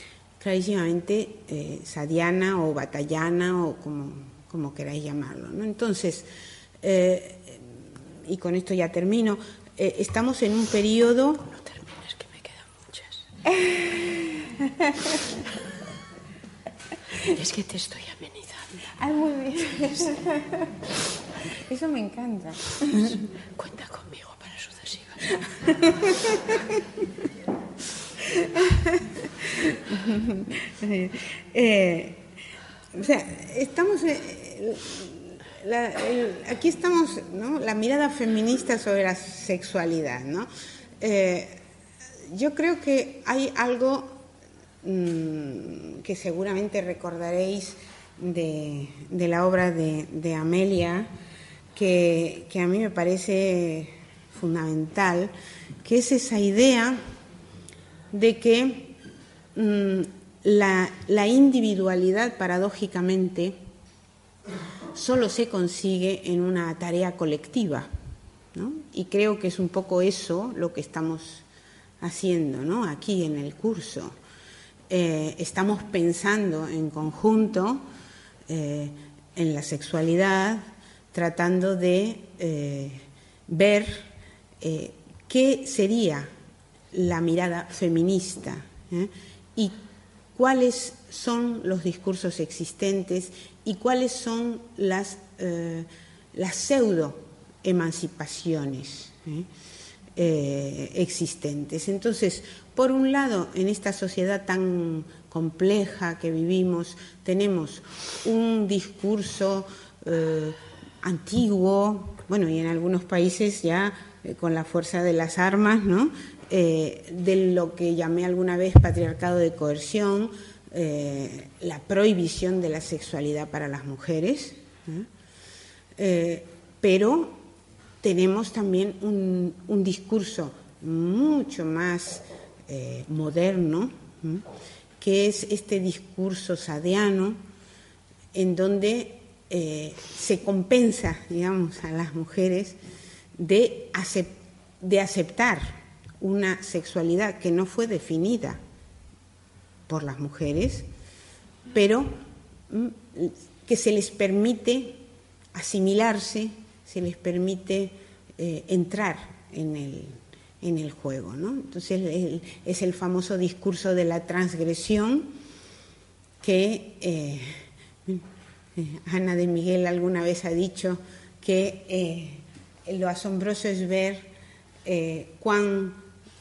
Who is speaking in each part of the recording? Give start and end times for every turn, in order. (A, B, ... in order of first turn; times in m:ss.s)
0:00.4-0:06.3 A
0:06.8-0:11.5 A
0:11.6-0:13.2 B
0:13.4-0:15.2 A
0:17.3-0:18.7 B
0:19.0-0:20.7 A
0:21.6-0:23.2 A
0:23.5-0:25.3 B
0:25.7-0:26.8 A
0:28.4-0:32.2 A
0:32.9-0:40.5 A
0:41.0-0:41.6 A
0:42.3-0:44.2 A
0:44.8-0:51.1 A
0:51.7-0:55.3 A
0:55.8-0:57.0 A
0:58.1-0:59.0 A
0:59.5-1:03.6 A
1:04.9-1:07.9 A
1:08.5-1:11.4 A
1:12.0-1:14.2 A
1:14.9-1:17.8 A
1:18.5-1:20.6 A
1:21.1-1:24.1 A
1:24.6-1:26.3 A
1:26.9-1:29.7 A
1:30.3-1:39.5 A
1:40.2-2:05.1 A
2:06.0-2:07.4 A
2:08.0-2:14.4 A
2:15.0-2:17.4 A
2:18.3-2:22.8 A
2:23.4-2:28.6 A
2:29.9-2:30.8 A
2:31.7-2:32.2 A
2:32.7-2:35.0 A
2:35.5-2:45.3 A
2:46.4-2:48.2 A
2:48.8-2:54.3 A
2:54.8-2:56.0 A